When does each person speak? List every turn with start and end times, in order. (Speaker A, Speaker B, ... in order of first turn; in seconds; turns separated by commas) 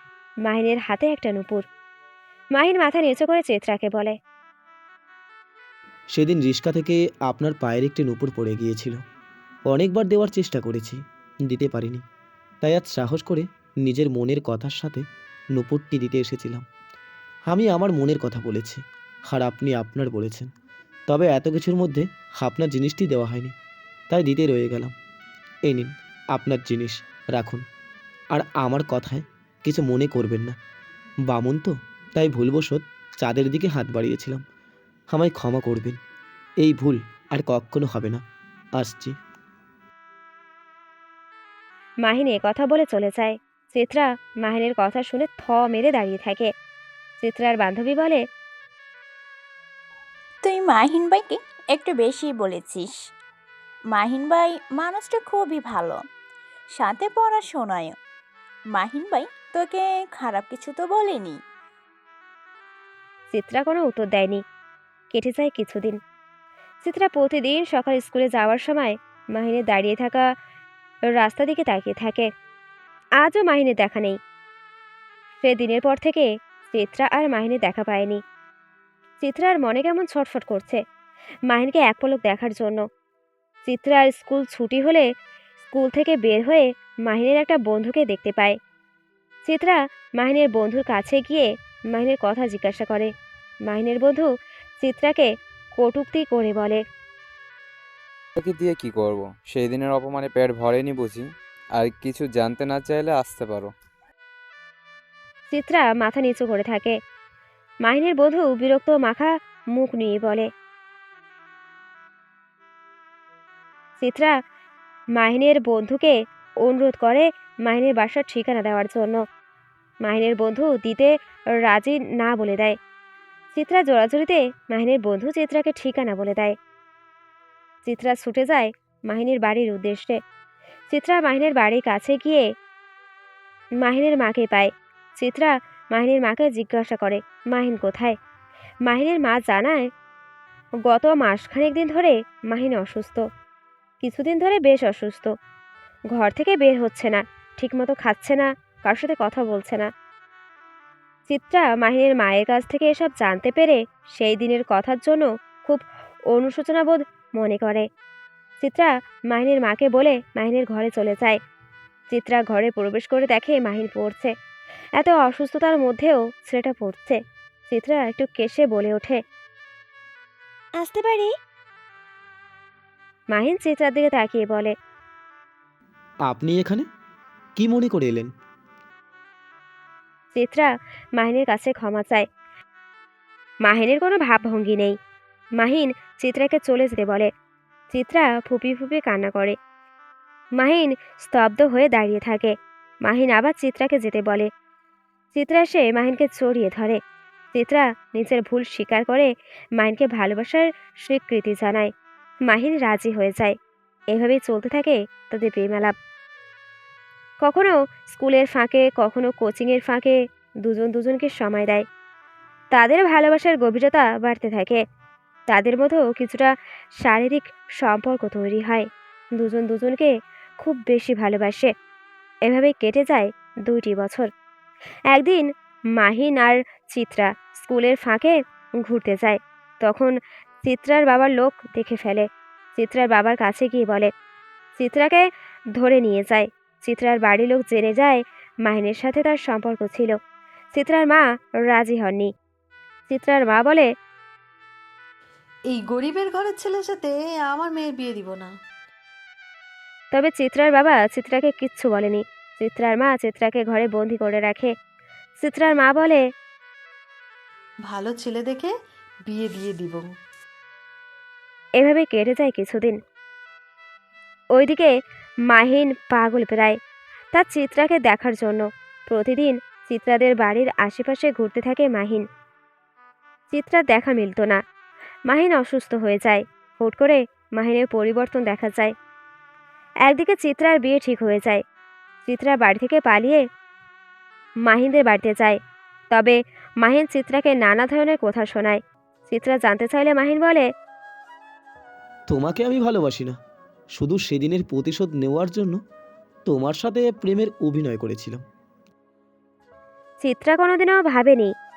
Speaker A: 0.5-1.6, Speaker A: 2.5-4.2, Speaker B: 6.1-9.0, Speaker B: 9.7-12.0, Speaker B: 12.6-16.6, Speaker B: 17.5-20.5, Speaker B: 21.1-23.5, Speaker B: 24.1-24.9, Speaker B: 25.6-27.6, Speaker B: 28.3-30.5, Speaker B: 31.2-34.4, Speaker B: 35.1-36.0, Speaker B: 36.6-38.2, Speaker B: 38.8-39.1, Speaker A: 42.0-46.5, Speaker A: 47.2-48.2, Speaker C: 50.4-52.9, Speaker C: 53.9-56.0, Speaker C: 56.7-58.0, Speaker C: 58.7-61.4, Speaker A: 63.3-64.4, Speaker A: 65.1-66.0, Speaker A: 66.8-70.3, Speaker A: 71.1-72.3, Speaker A: 73.2-74.2, Speaker A: 75.4-78.2, Speaker A: 79.2-80.8, Speaker A: 81.5-82.8, Speaker A: 83.6-85.0, Speaker A: 85.7-88.5, Speaker A: 89.5-93.1, Speaker A: 93.7-94.3, Speaker A: 94.8-96.8, Speaker D: 98.3-103.7, Speaker A: 105.5-107.0, Speaker A: 107.8-110.5, Speaker A: 114.0-114.3, Speaker A: 115.2-119.2, Speaker A: 120.0-122.8, Speaker A: 123.5-126.5, Speaker A: 127.8-130.2, Speaker A: 130.9-132.4, Speaker A: 133.8-138.1, Speaker A: 138.8-139.9, Speaker A: 140.9-143.2, Speaker A: 144.0-145.3, Speaker A: 146.1-149.9, Speaker A: 151.3-157.8, Speaker A: 158.6-161.3, Speaker A: 162.1-164.3, Speaker A: 165.0-169.2, Speaker A: 170.8-171.3, Speaker A: 173.3-174.7, Speaker B: 176.2-176.8, Speaker B: 177.6-178.3, Speaker A: 180.3-182.2, Speaker A: 183.6-184.9, Speaker A: 185.6-187.3, Speaker A: 187.9-189.6, Speaker A: 190.6-192.5, Speaker A: 193.1-194.5, Speaker A: 195.3-197.0, Speaker A: 197.5-201.9, Speaker A: 202.5-203.5, Speaker A: 204.1-205.9, Speaker A: 207.4-211.8, Speaker A: 212.7-214.8, Speaker A: 215.5-218.8, Speaker A: 219.4-221.7, Speaker A: 222.4-224.3, Speaker A: 225.1-234.1, Speaker A: 234.8-240.1, Speaker A: 240.7-242.3, Speaker A: 243.1-243.9, Speaker E: 245.7-248.6, Speaker A: 250.1-254.7, Speaker A: 255.4-256.2, Speaker E: 257.8-258.7, Speaker E: 259.2-260.1, Speaker A: 261.8-263.0, Speaker A: 264.5-264.9, Speaker A: 265.5-266.8, Speaker A: 267.3-272.2, Speaker A: 273.5-274.6, Speaker A: 275.3-278.9, Speaker A: 280.1-281.6, Speaker A: 282.2-283.4, Speaker A: 284.6-285.6, Speaker A: 286.1-290.7, Speaker B: 292.3-293.4, Speaker B: 293.9-295.8, Speaker B: 296.5-298.4, Speaker A: 300.2-301.5